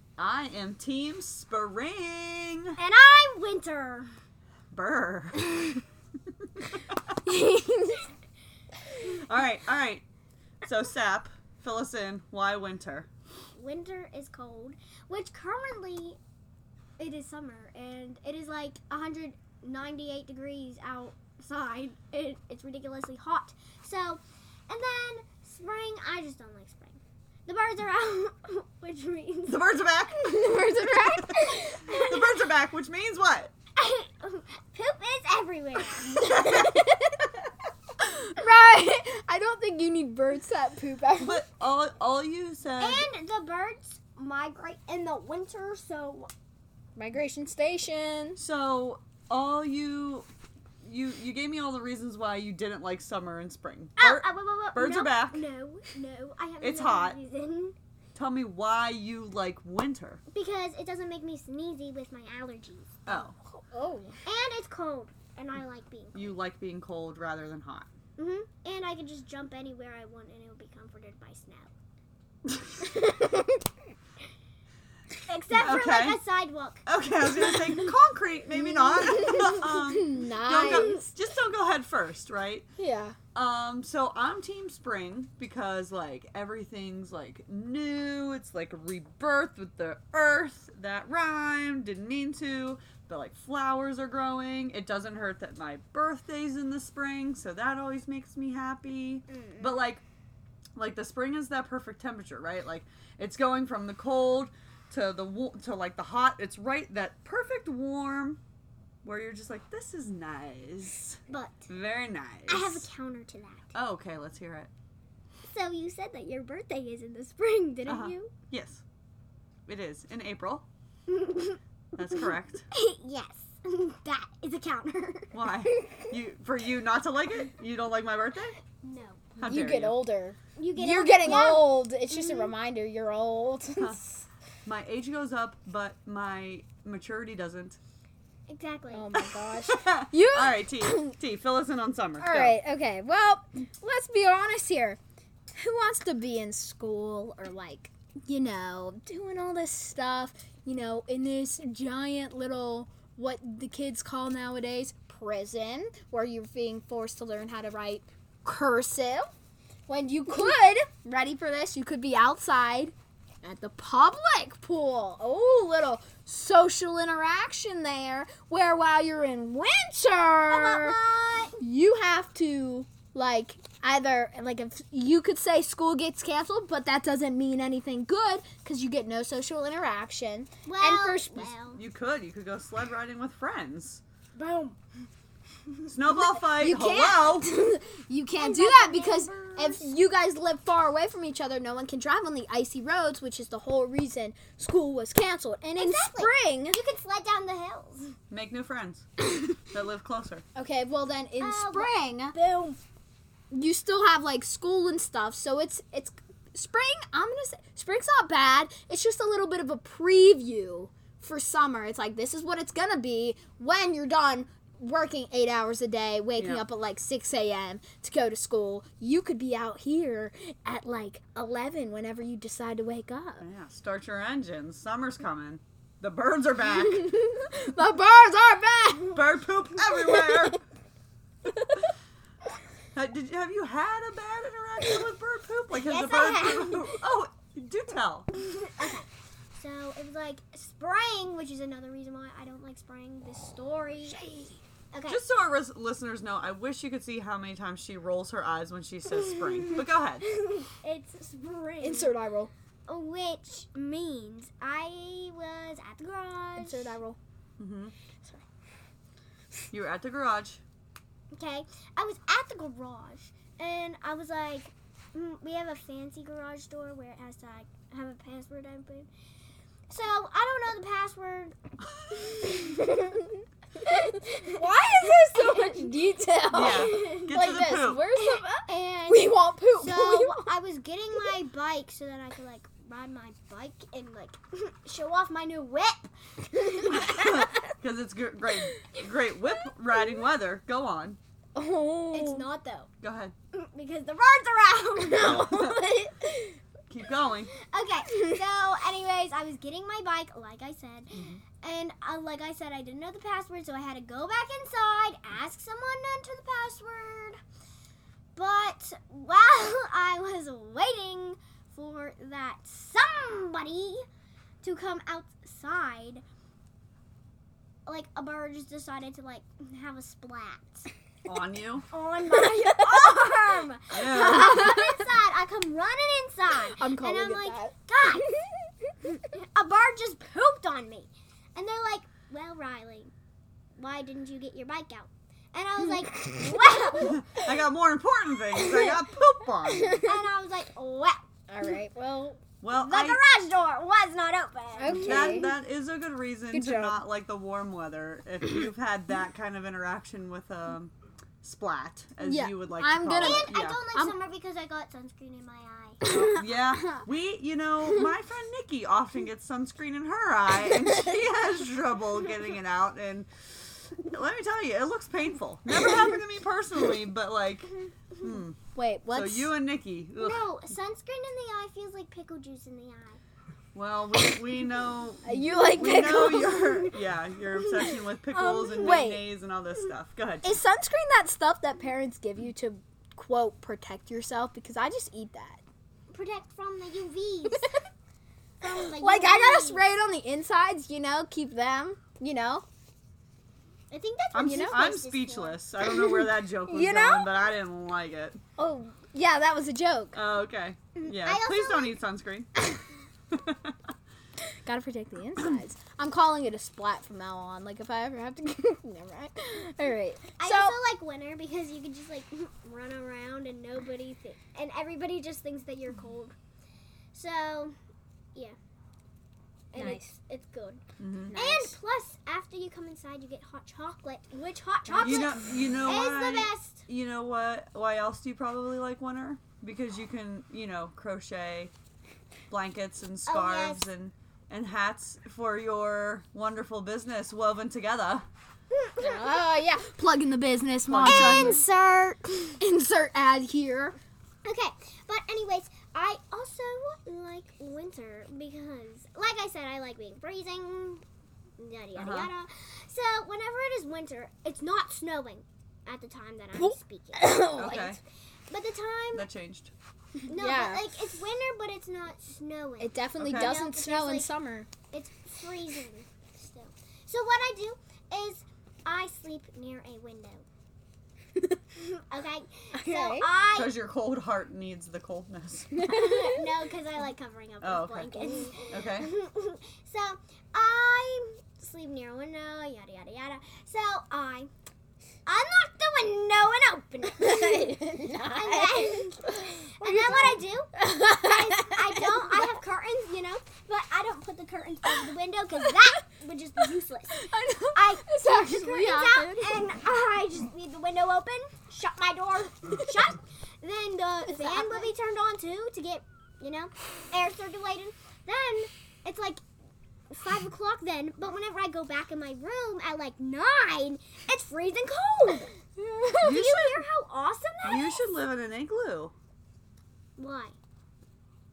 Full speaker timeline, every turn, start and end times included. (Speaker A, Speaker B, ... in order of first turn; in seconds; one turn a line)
Speaker A: 0.2-2.8
Speaker B: 2.8-4.1
Speaker A: 4.7-5.5
Speaker C: 7.3-8.0
Speaker A: 9.0-10.0
Speaker A: 10.6-13.1
Speaker B: 13.5-16.2
Speaker B: 17.0-29.6
Speaker A: 29.5-33.5
Speaker C: 30.1-32.1
Speaker B: 33.8-36.6
Speaker C: 36.1-36.9
Speaker C: 38.0-41.4
Speaker A: 41.2-43.1
Speaker B: 42.8-46.3
Speaker C: 47.0-48.4
Speaker A: 48.4-50.3
Speaker A: 50.8-55.4
Speaker B: 54.0-57.7
Speaker A: 56.6-57.2
Speaker A: 58.1-60.2
Speaker B: 60.3-63.2
Speaker A: 63.1-63.3
Speaker C: 63.1-64.2
Speaker B: 64.2-66.3
Speaker A: 66.1-67.9
Speaker B: 68.2-71.7
Speaker B: 72.8-73.3
Speaker B: 75.2-76.8
Speaker A: 75.5-76.2
Speaker A: 76.8-82.7
Speaker C: 78.9-81.1
Speaker B: 80.6-81.0
Speaker C: 82.8-83.2
Speaker A: 83.3-100.0
Speaker B: 99.3-99.8
Speaker A: 100.8-108.4
Speaker A: 109.0-112.9
Speaker B: 111.3-111.7
Speaker B: 112.5-113.7
Speaker A: 113.7-114.7
Speaker B: 115.4-118.3
Speaker A: 117.8-118.8
Speaker A: 119.7-120.7
Speaker B: 121.1-121.6
Speaker A: 122.0-122.7
Speaker B: 122.7-126.1
Speaker A: 125.3-128.6
Speaker B: 128.8-129.3
Speaker A: 129.4-130.0
Speaker C: 129.4-134.2
Speaker B: 130.6-132.5
Speaker A: 134.6-137.8
Speaker B: 138.5-139.2
Speaker C: 138.9-141.1
Speaker A: 139.2-142.6
Speaker C: 142.2-145.0
Speaker C: 145.5-159.3
Speaker C: 159.9-171.0
Speaker B: 170.5-171.6
Speaker C: 171.6-181.5
Speaker B: 180.6-181.8
Speaker A: 181.7-184.0
Speaker B: 184.4-184.7
Speaker A: 185.9-187.5
Speaker C: 186.5-196.8
Speaker B: 188.3-189.9
Speaker B: 195.7-198.1
Speaker A: 198.3-199.1
Speaker A: 199.7-200.4
Speaker C: 200.6-202.4
Speaker B: 201.4-202.8
Speaker C: 203.5-223.4
Speaker A: 216.4-216.6
Speaker A: 223.4-227.1
Speaker C: 226.7-229.2
Speaker A: 229.1-230.6
Speaker C: 229.9-230.6
Speaker A: 232.9-238.3
Speaker B: 235.7-236.9
Speaker B: 238.3-245.2
Speaker A: 245.1-250.2
Speaker B: 249.4-252.1
Speaker C: 251.8-252.5
Speaker B: 252.9-256.9
Speaker C: 256.6-257.2
Speaker A: 257.6-257.9
Speaker A: 259.7-260.6
Speaker B: 261.3-269.1
Speaker B: 269.9-271.5
Speaker B: 272.2-272.9
Speaker B: 273.9-275.9
Speaker C: 274.5-280.5
Speaker A: 276.5-278.1
Speaker B: 276.5-277.6
Speaker B: 278.1-287.2
Speaker A: 286.9-291.2
Speaker C: 291.6-292.5
Speaker B: 292.1-292.9
Speaker A: 293.0-293.3
Speaker B: 293.5-295.4
Speaker C: 295.1-296.5
Speaker A: 295.3-295.7
Speaker A: 296.9-297.5
Speaker B: 297.7-307.4
Speaker A: 301.1-301.4
Speaker B: 308.4-314.0
Speaker B: 314.6-316.2
Speaker B: 317.9-320.9
Speaker A: 321.2-321.9
Speaker B: 321.9-328.2
Speaker C: 322.4-322.8
Speaker A: 323.9-324.7
Speaker C: 324.4-324.8
Speaker C: 326.8-328.7
Speaker B: 329.0-333.1
Speaker B: 333.8-337.4
Speaker A: 337.0-340.0
Speaker B: 340.0-341.7
Speaker C: 341.5-342.4
Speaker A: 342.6-343.2
Speaker B: 342.7-345.5
Speaker C: 344.8-345.5
Speaker A: 344.9-353.8
Speaker C: 346.5-347.0
Speaker C: 352.2-354.1
Speaker B: 353.1-356.0
Speaker C: 356.0-357.0
Speaker A: 356.1-363.3
Speaker A: 363.9-368.6
Speaker C: 368.7-369.5
Speaker A: 369.1-370.5
Speaker B: 370.2-373.2
Speaker A: 373.7-380.6
Speaker C: 375.2-376.9
Speaker C: 377.8-379.2
Speaker C: 380.4-385.6
Speaker B: 386.1-387.7
Speaker B: 388.6-389.9
Speaker C: 388.6-392.6
Speaker B: 393.9-395.6
Speaker A: 394.3-398.4
Speaker C: 394.4-394.9
Speaker C: 395.8-397.3
Speaker C: 398.6-400.2
Speaker A: 400.1-402.5
Speaker B: 401.0-402.0
Speaker A: 403.3-403.7
Speaker C: 404.5-410.8
Speaker B: 410.4-416.3
Speaker B: 417.1-417.7
Speaker B: 419.7-420.8
Speaker C: 419.7-420.1
Speaker A: 421.0-421.3
Speaker C: 421.3-421.8
Speaker B: 421.3-426.8
Speaker C: 424.9-425.4
Speaker A: 425.0-431.7
Speaker A: 432.5-438.2
Speaker B: 433.2-433.8
Speaker B: 438.8-439.4
Speaker C: 439.0-441.6
Speaker A: 440.9-441.6
Speaker B: 441.0-442.6
Speaker C: 442.6-444.0
Speaker B: 444.4-451.0
Speaker B: 451.6-457.9
Speaker A: 451.9-452.3
Speaker C: 456.5-458.0
Speaker A: 457.5-458.0
Speaker B: 458.5-459.3
Speaker A: 459.1-459.7
Speaker C: 460.2-460.9
Speaker B: 460.2-464.3
Speaker C: 462.8-464.7
Speaker A: 463.2-463.6
Speaker B: 464.9-470.4
Speaker B: 471.8-473.8
Speaker C: 472.7-473.3
Speaker A: 473.5-475.8
Speaker C: 475.7-476.4
Speaker B: 475.9-484.5
Speaker A: 477.6-479.1
Speaker C: 478.1-478.5
Speaker B: 485.2-489.2
Speaker C: 487.2-492.5
Speaker B: 489.8-509.4
Speaker C: 497.1-499.6
Speaker C: 504.3-504.9
Speaker B: 510.1-515.5
Speaker C: 515.8-516.3
Speaker B: 516.2-518.0
Speaker A: 516.2-516.8
Speaker A: 517.6-519.1
Speaker B: 520.2-520.5